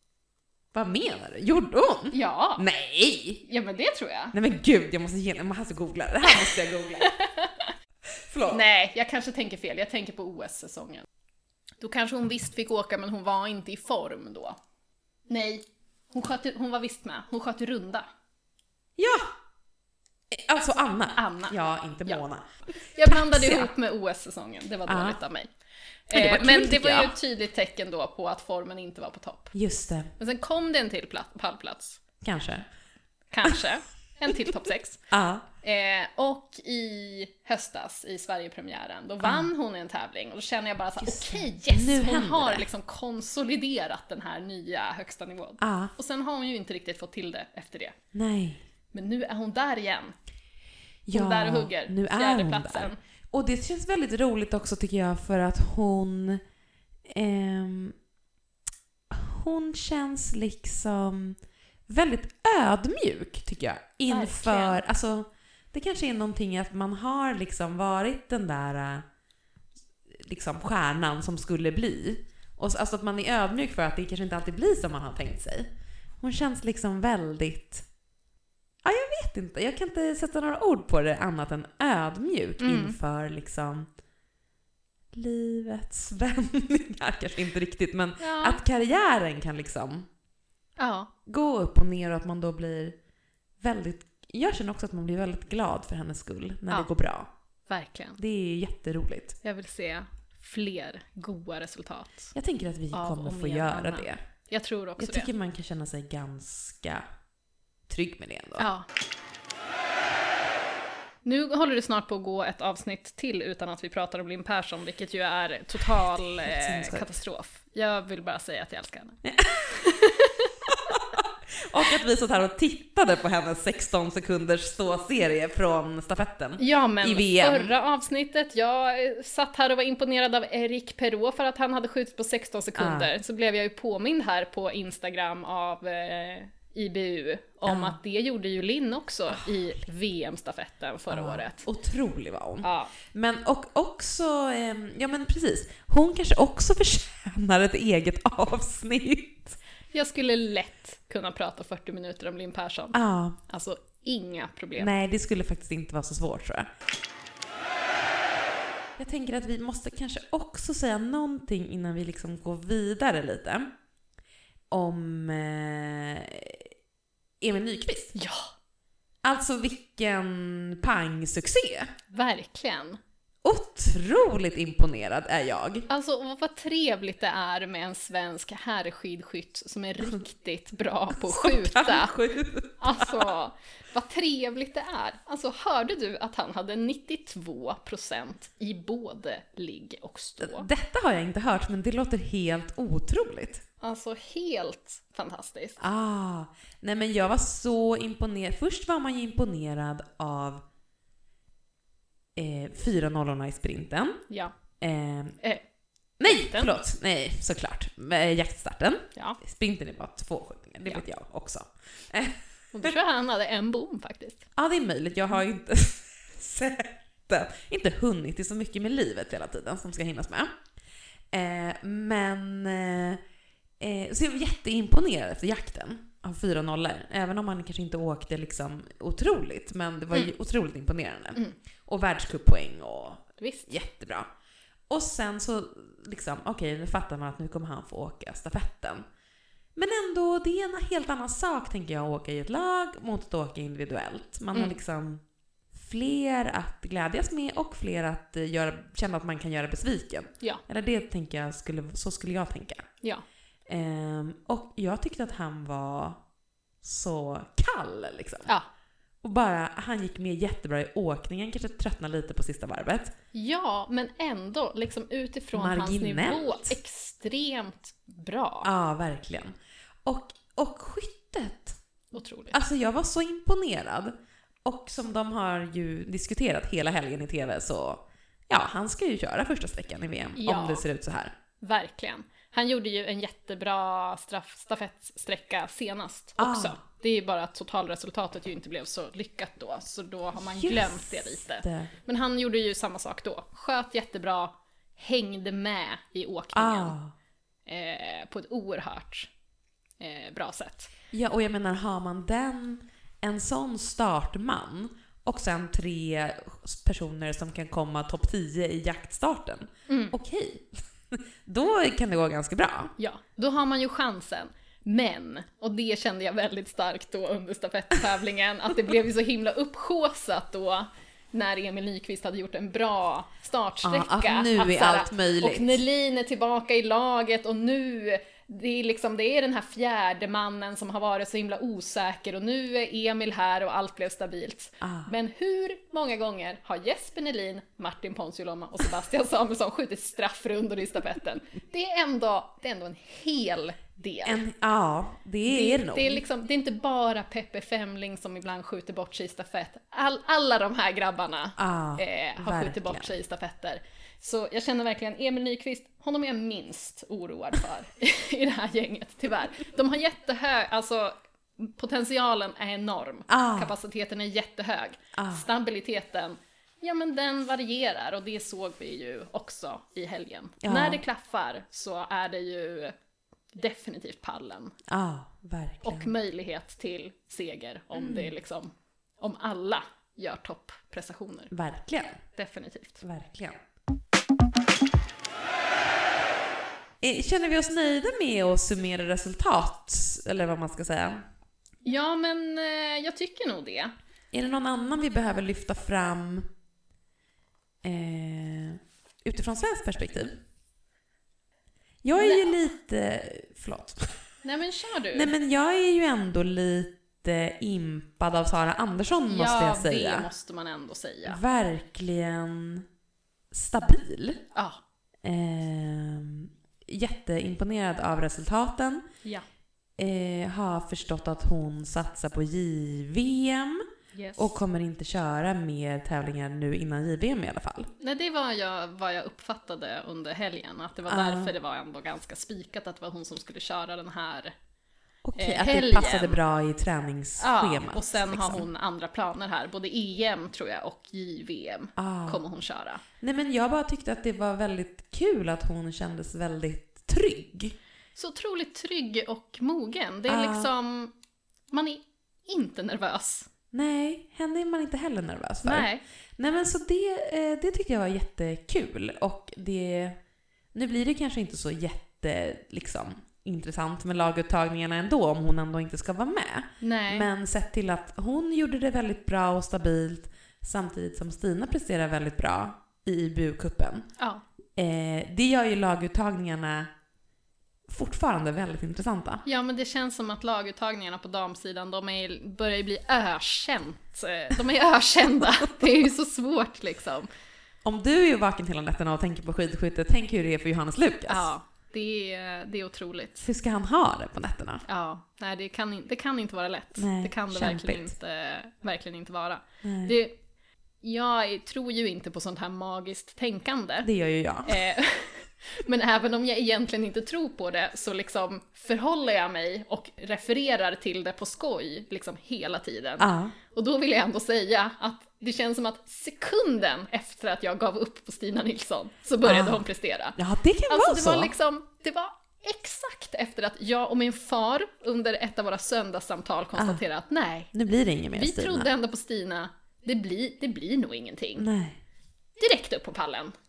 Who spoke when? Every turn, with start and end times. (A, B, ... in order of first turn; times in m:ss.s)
0:00.7-0:03.4 A
0:02.1-0:02.7 B
0:03.4-0:04.4 B
0:04.3-0:07.2 A
0:06.3-0:07.7 B
0:08.2-0:08.6 A
0:08.5-0:11.1 B
0:11.8-0:14.6 B
0:15.3-0:18.1 B
0:19.0-0:19.3 A
0:20.3-0:22.5 A
0:21.2-0:22.2 B
0:23.0-0:25.5 B
0:23.0-0:23.7 A
0:24.9-0:25.2 A
0:26.1-0:29.6 B
0:26.1-0:27.1 A
0:29.5-0:30.1 A
0:30.2-0:32.0 B
0:32.2-0:32.7 A
0:33.3-0:35.0 B
0:35.1-0:35.5 A
0:35.6-0:48.0 B
0:39.2-0:39.5 A
0:41.0-0:42.7 A
0:45.6-0:45.9 A
0:48.1-0:48.6 A
0:48.9-0:50.1 B
0:51.1-0:56.4 A
0:51.1-0:53.0 B
0:57.1-0:58.0 A
0:59.1-1:09.0 A
1:04.1-1:04.8 B
1:10.1-1:15.7 A
1:16.2-1:17.8 A
1:18.8-1:23.9 A
1:22.6-1:23.0 B
1:25.1-1:30.1 A
1:28.2-1:28.6 B
1:30.8-1:31.1 B
1:31.3-1:33.0 A
1:33.6-1:37.3 A
1:37.7-1:38.2 B
1:38.2-1:39.4 A
1:39.4-1:42.4 B
1:42.4-1:44.2 A
1:42.9-1:45.3 B
1:45.0-1:47.1 A
1:47.9-1:48.7 A
1:48.6-1:48.9 B
1:51.2-2:01.0 B
1:56.4-1:57.1 A
1:59.2-1:59.9 A
2:00.7-2:07.7 A
2:06.6-2:21.7 B
2:12.8-2:13.1 A
2:17.6-2:18.0 A
2:19.3-2:19.6 A
2:21.1-2:29.6 A
2:22.6-2:22.9 B
2:29.9-2:34.9 B
2:32.9-2:33.4 A
2:34.8-2:36.7 A
2:39.0-2:43.7 A
2:44.7-2:46.7 A
2:47.4-2:48.1 A
2:48.2-2:48.5 B
2:49.2-2:51.9 A
2:52.1-2:53.0 B
2:53.4-2:55.9 A
2:55.9-3:02.1 B
3:01.1-3:03.3 A
3:02.8-3:10.7 B
3:10.4-3:13.6 A
3:13.8-3:15.8 B
3:15.8-3:20.6 A
3:22.4-3:24.2 A
3:24.8-3:25.4 A
3:26.2-3:32.9 A
3:26.2-3:26.7 B
3:32.7-3:34.4 B
3:34.6-3:40.5 A
3:41.3-3:43.2 A
3:43.8-3:54.3 A
3:53.4-3:53.7 B
3:54.9-3:59.0 A
3:59.8-4:05.2 A
4:05.7-4:12.9 A
4:13.7-4:16.2 A
4:16.8-4:18.5 A
4:19.2-4:23.2 A
4:23.3-4:28.7 B
4:25.5-4:26.8 A
4:28.6-4:31.8 A
4:32.1-4:32.6 B
4:32.5-4:34.1 A
4:34.6-4:41.3 A
4:40.4-4:40.8 B
4:41.6-4:57.0 B
4:46.4-4:46.8 A
4:50.5-4:51.9 A
4:56.5-4:57.1 A
4:57.7-4:59.3 B
5:00.0-5:00.9 B
5:01.1-5:12.9 A
5:09.9-5:10.2 B
5:13.0-5:44.4 B
5:23.8-5:25.8 A
5:34.8-5:35.1 A
5:44.2-5:46.2 A
5:45.5-6:12.9 B
5:51.6-5:53.1 A
6:03.3-6:03.7 A
6:05.2-6:05.4 A
6:10.6-6:11.0 A
6:13.6-6:14.8 B
6:14.9-6:16.1 A
6:15.8-6:21.5 B
6:17.9-6:18.3 A
6:21.5-6:22.2 A
6:22.3-6:23.0 B
6:23.0-6:23.6 A
6:27.0-6:31.2 A
6:31.8-6:33.9 B
6:34.3-6:36.5 A
6:37.8-6:40.4 A
6:42.0-6:44.2 A
6:42.2-6:42.5 B
6:44.4-6:45.3 B
6:45.1-6:50.3 A
6:49.3-6:51.4 B
6:51.3-6:52.9 A
6:53.5-6:54.4 A
6:54.5-6:54.8 B
6:55.2-6:59.0 A
7:00.0-7:03.8 A
7:04.2-7:04.6 B
7:04.4-7:07.9 A
7:08.0-7:14.5 B
7:11.1-7:11.5 A
7:15.2-7:18.7 A
7:15.4-7:16.4 B
7:17.4-7:23.0 B
7:22.0-7:22.4 A
7:23.2-7:27.8 A
7:28.2-7:31.1 B
7:30.3-7:30.7 A
7:31.7-7:33.5 B
7:33.7-7:40.2 A
7:35.6-7:36.0 B
7:40.7-7:54.1 A
7:46.8-7:47.3 B
7:54.2-7:54.4 B
7:54.8-7:56.9 A
7:57.9-7:59.4 A
7:59.5-8:07.3 B
8:07.8-8:11.5 A
8:11.3-8:13.5 B
8:13.4-8:14.8 A
8:14.9-8:20.4 B
8:17.0-8:18.1 A
8:19.8-8:20.1 A
8:21.0-8:24.1 B
8:24.0-8:24.8 A
8:24.6-8:47.7 B
8:33.2-8:33.6 A
8:39.4-8:41.5 A
8:46.8-8:47.0 A
8:47.7-8:48.9 A
8:48.3-8:51.7 B
8:51.6-8:52.0 A
8:52.6-8:53.5 B